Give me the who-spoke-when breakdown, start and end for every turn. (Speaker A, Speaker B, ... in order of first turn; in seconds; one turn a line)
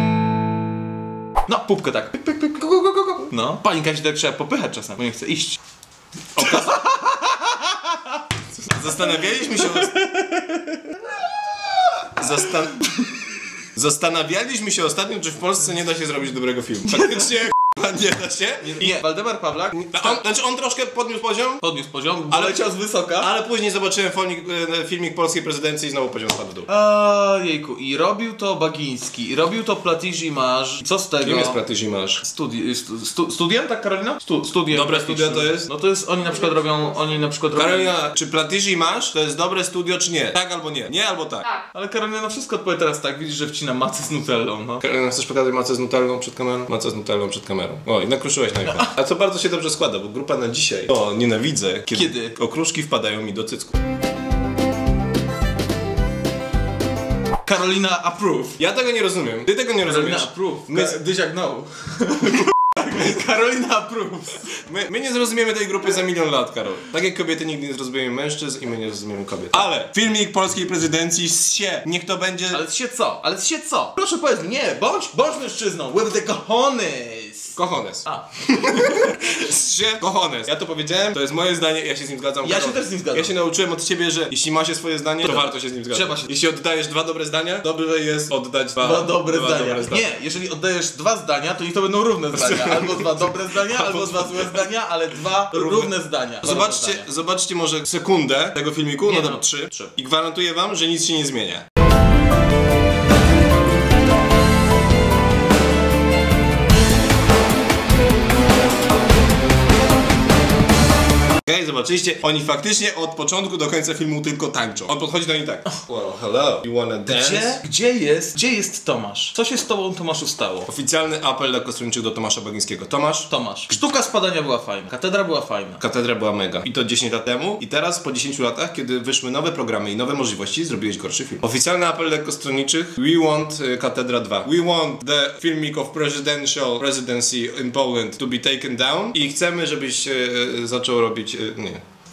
Speaker A: 1.4-5.6
Speaker B: 6.3-6.8
Speaker A: 6.4-11.2
Speaker B: 8.7-9.9
Speaker B: 12.1-12.9
Speaker A: 12.2-13.0
Speaker B: 13.7-18.9
Speaker A: 16.9-17.5
Speaker A: 18.6-20.2
Speaker B: 19.8-21.6
Speaker A: 21.6-23.3
Speaker B: 22.3-22.6
Speaker B: 23.2-26.7
Speaker A: 26.7-31.6
Speaker B: 31.2-32.2
Speaker A: 32.2-38.0
Speaker B: 34.7-35.7
Speaker B: 37.5-41.4
Speaker A: 41.6-44.8
Speaker B: 44.8-53.8
Speaker A: 51.9-52.3
Speaker A: 57.4-58.6
Speaker B: 58.6-61.0
Speaker A: 59.8-64.6
Speaker B: 64.6-72.6
Speaker A: 72.5-79.3
Speaker B: 77.5-90.0
Speaker A: 82.4-83.3
Speaker A: 85.2-86.3
Speaker A: 88.8-97.1
Speaker B: 92.3-94.6
Speaker B: 95.5-95.9
Speaker B: 96.4-101.6
Speaker A: 99.0-99.9
Speaker B: 111.4-117.6
Speaker A: 117.1-120.7
Speaker B: 120.7-123.3
Speaker A: 123.3-125.8
Speaker B: 125.8-141.8